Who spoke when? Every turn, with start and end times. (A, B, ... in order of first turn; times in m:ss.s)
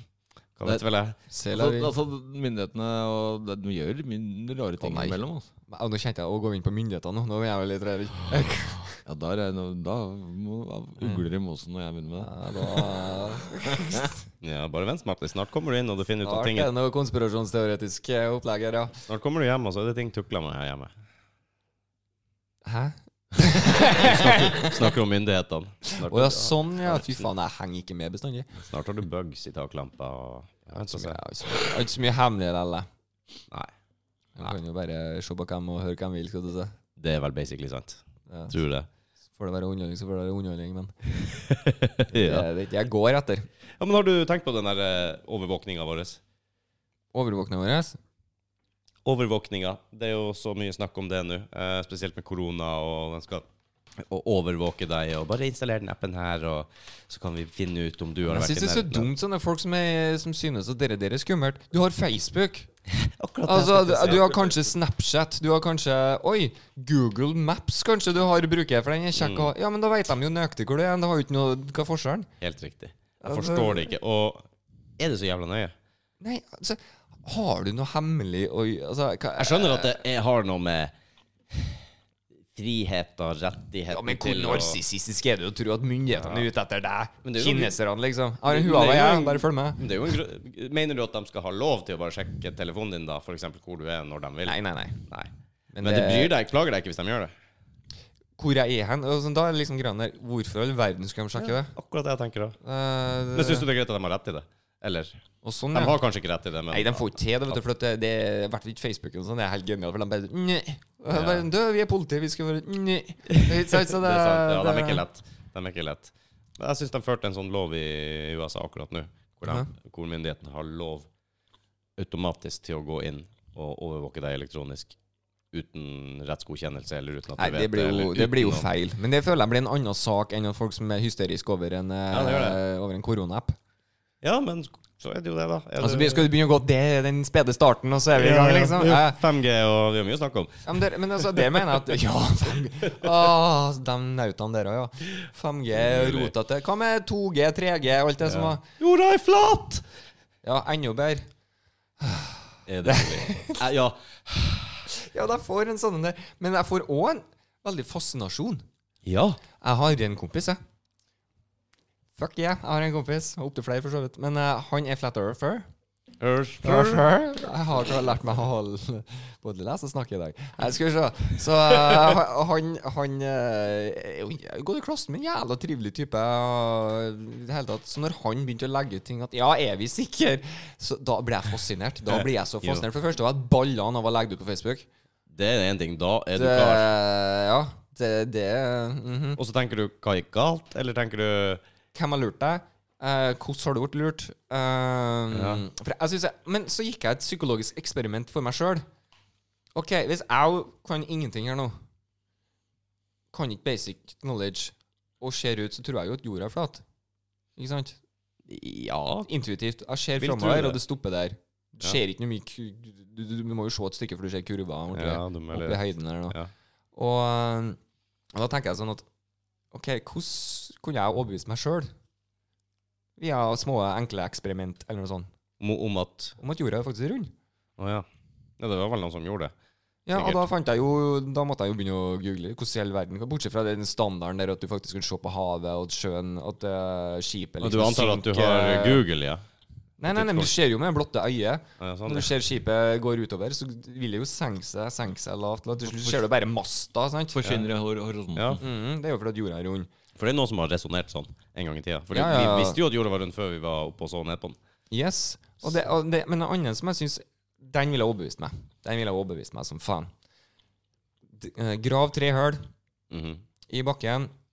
0:00.6-0:01.2 A
0:01.3-0:01.9 B
0:01.5-0:05.5 C
0:04.8-0:09.0 B
0:09.0-0:14.1 C
0:12.2-0:14.1 B
0:14.4-0:16.7 A
0:16.2-0:19.0 B
0:19.1-0:20.9 A
0:22.6-0:24.9 B
0:23.8-0:27.2 A
0:25.9-0:28.5 B
0:28.7-0:31.2 A
0:30.9-0:32.9 B
0:34.4-0:36.7 B
0:37.0-0:38.9 A
0:38.3-0:38.6 B
0:39.4-0:40.9 B
0:41.2-0:42.5 A
0:42.1-0:43.5 B
0:43.8-0:46.2 A
0:47.1-0:48.0 B
0:49.0-0:53.4 A
0:54.0-0:59.1 A
0:58.3-1:02.7 B
1:02.9-1:04.6 A
1:03.5-1:12.3 B
1:09.2-1:09.5 A
1:12.4-1:14.4 A
1:13.2-1:13.9 B
1:15.0-1:15.7 A
1:16.2-1:20.0 B
1:19.4-1:20.9 A
1:21.5-1:21.8 A
1:22.5-1:24.8 A
1:23.9-1:29.8 B
1:26.2-1:26.5 A
1:27.2-1:27.8 A
1:28.5-1:35.3 A
1:34.5-1:35.0 B
1:35.7-1:36.3 B
1:35.8-1:37.3 A
1:38.4-1:41.7 B
1:41.4-1:42.6 A
1:42.6-1:43.7 B
1:43.3-1:47.6 A
1:45.4-1:46.0 B
1:46.7-1:55.0 B
1:51.1-1:51.5 A
1:53.3-2:01.1 A
2:02.0-2:05.0 A
2:05.5-2:08.7 A
2:07.4-2:13.6 B
2:12.1-2:12.6 A
2:14.2-2:16.3 A
2:15.8-2:19.2 B
2:18.2-2:21.6 A
2:20.7-2:28.6 B
2:25.7-2:26.3 A
2:28.3-2:29.8 A
2:30.4-2:31.2 B
2:32.0-2:33.6 B
2:32.7-2:34.9 A
2:34.9-2:38.6 B
2:39.0-2:39.4 A
2:39.6-2:40.6 B
2:42.2-2:45.7 B
2:46.2-2:47.1 A
2:46.6-3:04.9 B
3:02.1-3:02.8 A
3:05.3-3:06.9 A
3:06.4-3:09.4 B
3:09.4-3:11.6 A
3:11.9-3:18.8 B
3:15.3-3:15.6 A
3:19.8-3:21.8 B
3:23.3-3:26.8 B
3:27.6-3:28.0 B
3:28.5-3:29.3 A
3:29.3-3:36.4 B
3:30.2-3:30.8 A
3:34.9-3:36.5 A
3:37.0-3:37.8 B
3:38.3-3:39.0 B
3:39.7-3:41.9 B
3:43.2-3:45.3 B
3:45.6-3:46.4 A
3:46.4-3:47.3 B
3:47.8-3:48.1 A
3:48.6-3:49.5 A
3:50.1-3:59.0 B
3:50.1-3:50.5 A
3:57.6-3:59.4 A
4:00.0-4:07.4 B
4:00.1-4:00.5 A
4:01.8-4:02.3 A
4:05.9-4:06.2 C
4:07.3-4:08.6 C
4:08.4-4:08.6 A
4:08.6-4:09.9 B
4:10.2-4:14.6 A
4:12.1-4:12.8 B
4:14.9-4:20.1 B
4:21.3-4:22.6 B
4:23.1-4:23.4 A
4:23.7-4:24.3 B